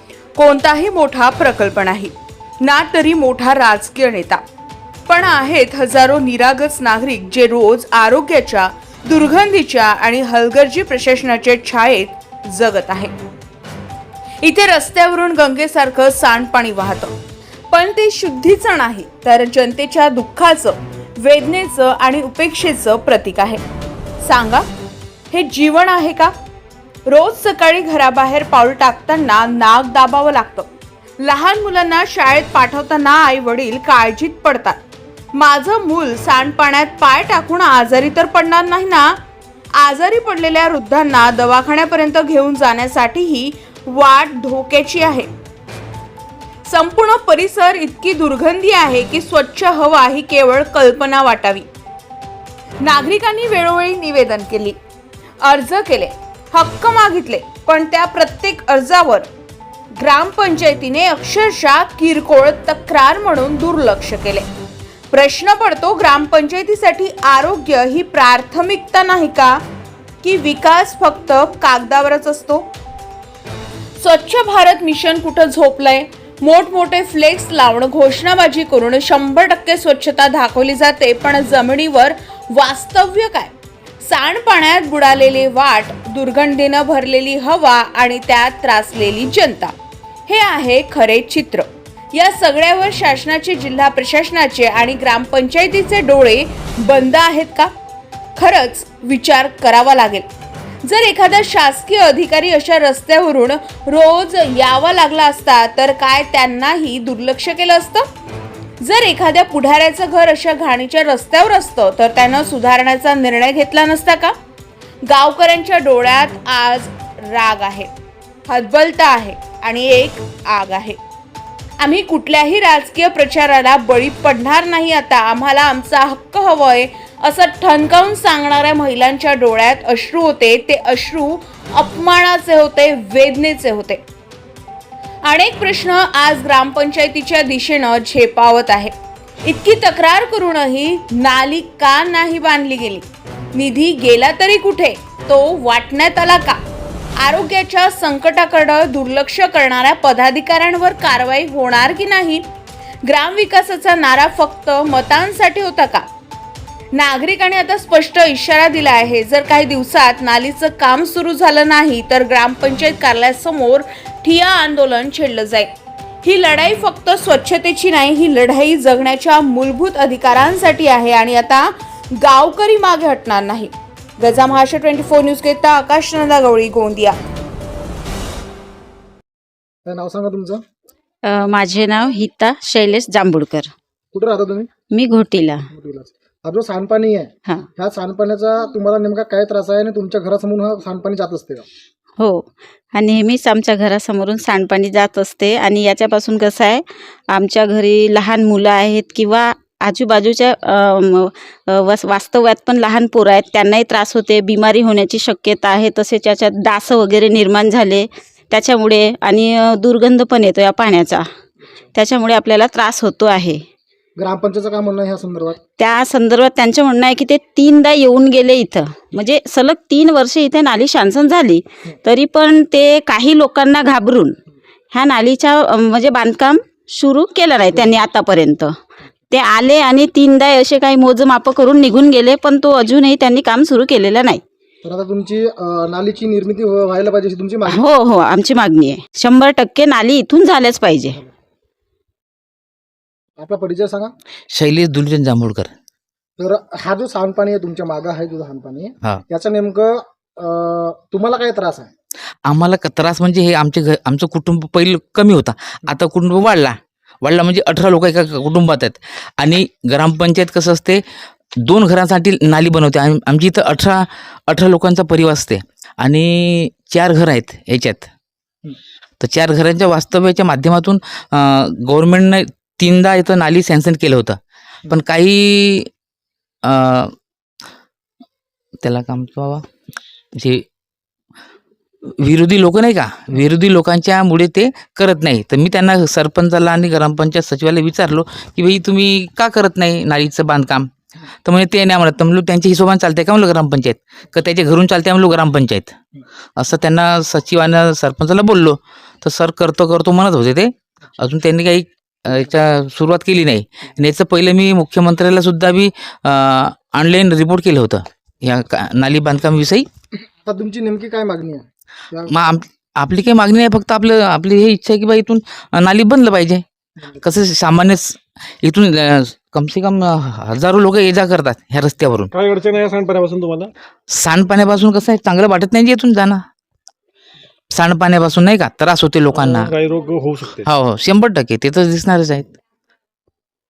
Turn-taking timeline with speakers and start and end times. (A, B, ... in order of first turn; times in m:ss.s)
0:00.4-0:04.4 A
0:05.1-0:13.1 A
0:14.4-0:17.1 A
0:17.7-0:23.6 A
0:24.2-0:24.6 A
0:25.3-0:26.3 A
0:27.1-0:34.8 A
0:35.3-0:39.2 A
0:39.8-0:45.3 A
0:46.6-0:51.7 A
0:52.8-0:54.8 A
0:55.4-0:59.3 A
1:00.0-1:04.5 A
1:05.1-1:09.6 A
1:10.2-1:12.7 A
1:14.0-1:29.7 A
1:30.3-1:37.7 A
1:38.4-1:40.3 A
1:40.8-1:48.0 A
1:48.8-1:54.3 A
1:55.1-1:57.9 A
1:58.5-2:01.0 A
2:01.8-2:14.0 A
2:15.2-2:18.9 A
2:19.4-2:26.6 A
2:27.2-2:32.4 A
2:33.0-2:36.1 A
2:36.9-2:45.7 A
2:46.2-2:57.2 A
2:59.8-3:00.6 B
3:01.2-3:03.7 C
3:04.1-3:04.7 B
3:04.9-3:05.7 C
3:05.7-3:11.7 B
3:12.2-3:31.3 C
3:32.0-3:33.6 C
3:34.2-3:35.6 B
3:35.8-3:44.4 C
3:44.9-3:48.8 C
3:49.3-3:54.4 C
3:54.8-3:57.8 B
3:57.7-4:01.2 C
4:03.4-4:04.1 B
4:04.5-4:05.7 D
4:06.4-4:11.9 B
4:12.5-4:21.0 D
4:21.6-4:28.1 D
4:29.2-4:34.4 D
4:34.9-4:35.9 D
4:36.6-4:37.1 D
4:38.8-4:39.7 D
4:40.4-4:40.6 D
4:42.1-4:50.9 D
4:51.4-4:56.0 D
4:56.6-5:09.9 D
5:10.4-5:12.4 B
5:12.3-5:16.6 D
5:17.2-5:22.3 D
5:22.3-5:23.7 E
5:24.1-5:26.4 D
5:27.7-5:29.7 D
5:29.3-5:30.7 E
5:30.6-5:32.6 D